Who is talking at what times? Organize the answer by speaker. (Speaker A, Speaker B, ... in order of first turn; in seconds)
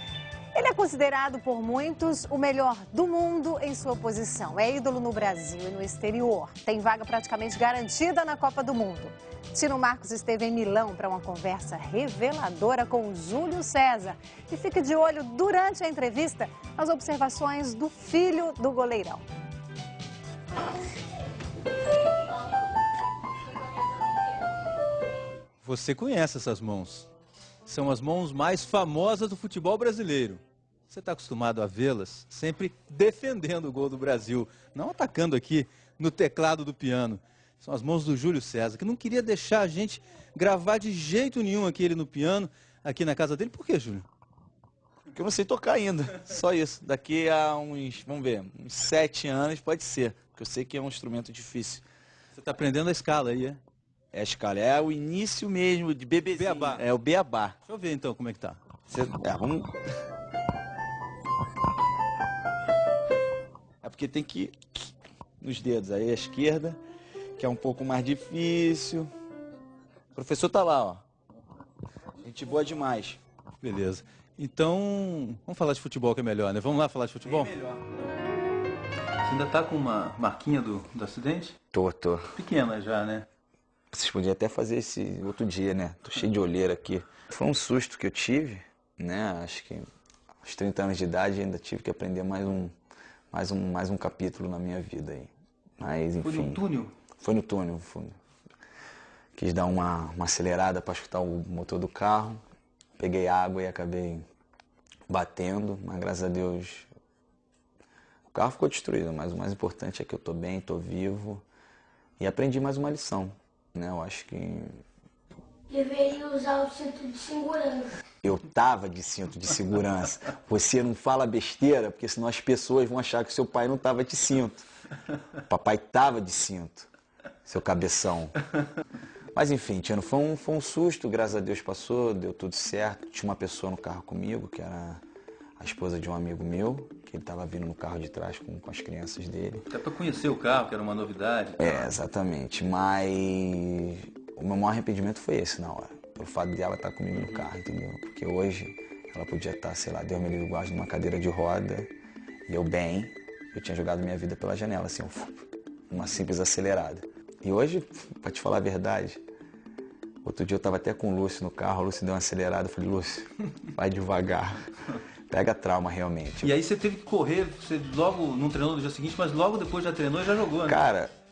Speaker A: 0.5-19.2
Speaker B: 25.6-27.1, 27.7-44.1, 52.4-53.6, 56.3-56.9, 57.6-58.6, 73.6-77.8, 79.2-81.6, 82.3-83.3, 96.2-97.0, 139.7-141.9, 147.1-147.4, 166.4-170.8
Speaker C: 45.1-51.9, 54.1-57.6, 58.9-59.7, 63.8-64.6, 65.4-66.8, 67.4-69.1, 70.2-71.0, 72.2-73.2, 81.7-82.3, 83.9-89.8, 90.4-92.7, 93.3-96.6, 97.2-98.2, 99.3-102.4, 103.0-104.3, 105.1-106.9, 108.3-111.5, 112.2-114.8, 118.2-124.7, 125.5-126.9, 127.5-128.3, 129.3-135.0, 135.6-139.6, 141.6-151.9, 152.5-159.2, 160.2-164.6, 165.3-166.6, 170.7-171.1
Speaker D: 115.7-118.0